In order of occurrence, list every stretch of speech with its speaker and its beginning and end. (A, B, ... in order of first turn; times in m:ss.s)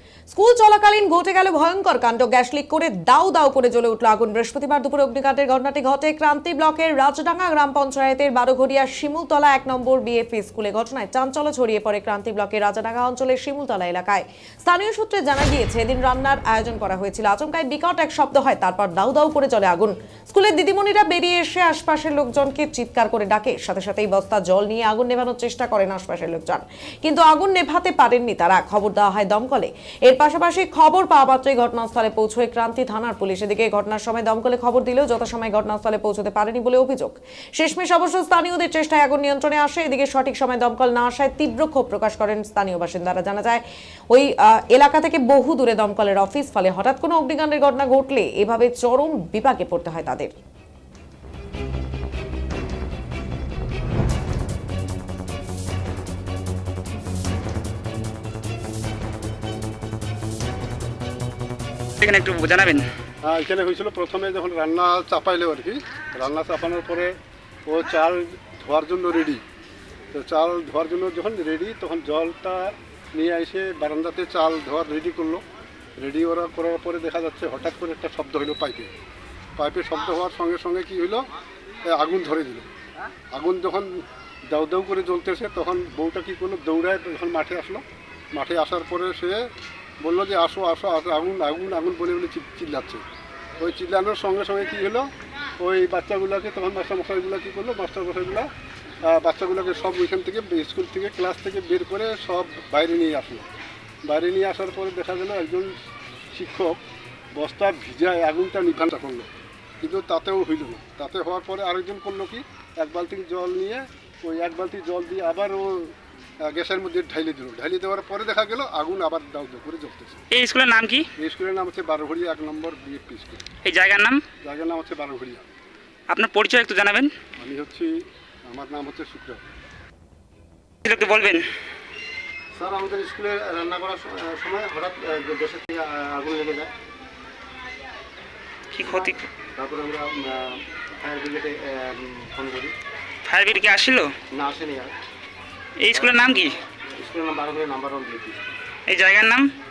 0:00.3-0:50.3 A
1:02.0-1:02.9 B
1:03.2-1:09.4 C
1:10.1-1:15.4 C
1:16.0-1:18.9 C
1:19.6-1:21.3 C
1:21.9-1:22.7 C
1:23.3-1:29.5 C
1:30.0-1:33.0 C
1:33.6-1:38.5 C
1:39.0-1:43.5 C
1:44.0-1:45.8 C
1:46.3-1:46.8 C
1:47.3-2:00.2 C
2:00.3-2:01.0 B
2:01.2-2:03.5 C
2:03.6-2:04.2 B
2:04.4-2:05.5 C
2:06.1-2:07.1 B
2:07.4-2:09.4 C
2:10.8-2:11.5 B
2:12.5-2:16.7 D
2:18.7-2:19.2 B
2:18.9-2:22.8 D
2:23.2-2:24.1 B
2:24.3-2:24.9 D
2:25.8-2:26.6 B
2:26.9-2:28.6 D
2:28.9-2:29.5 B